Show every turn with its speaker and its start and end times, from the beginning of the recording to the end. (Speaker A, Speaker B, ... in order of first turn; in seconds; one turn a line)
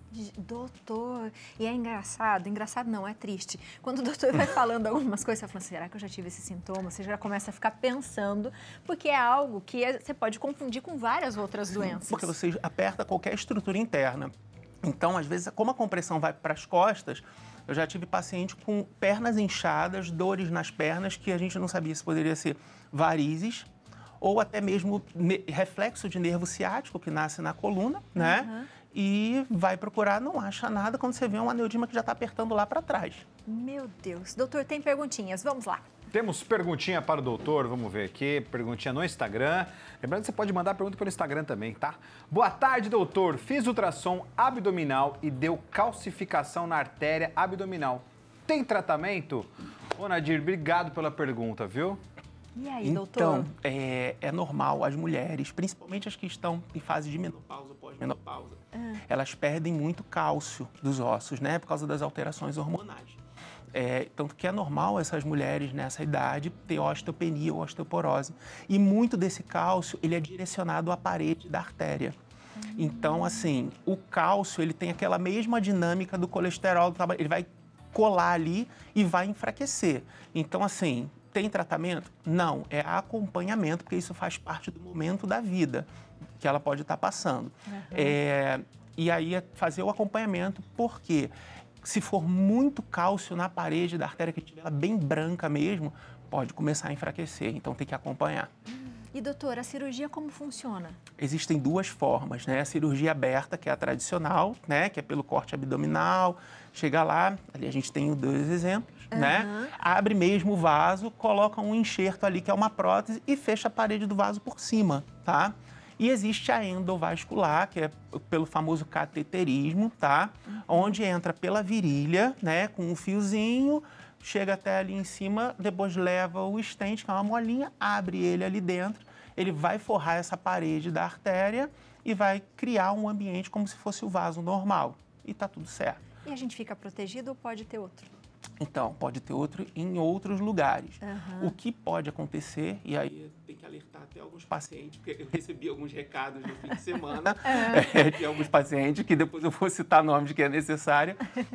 Speaker A: 0.1-12.3
Speaker B: 11.8-14.3
Speaker B: 14.8-23.7
Speaker B: 24.2-33.2
Speaker A: 28.1-28.7
Speaker A: 33.5-35.9
Speaker C: 36.1-52.0
Speaker A: 52.5-53.5
Speaker B: 52.8-63.2
Speaker A: 58.7-59.0
Speaker B: 63.7-72.1
Speaker A: 72.6-73.5
Speaker B: 72.7-85.9
Speaker B: 86.4-98.5
Speaker A: 87.7-88.2
Speaker A: 98.8-101.0
Speaker B: 101.2-136.1
Speaker A: 109.1-109.7
Speaker A: 136.2-138.1
Speaker B: 138.6-151.2
Speaker A: 141.0-141.5
Speaker A: 147.4-148.1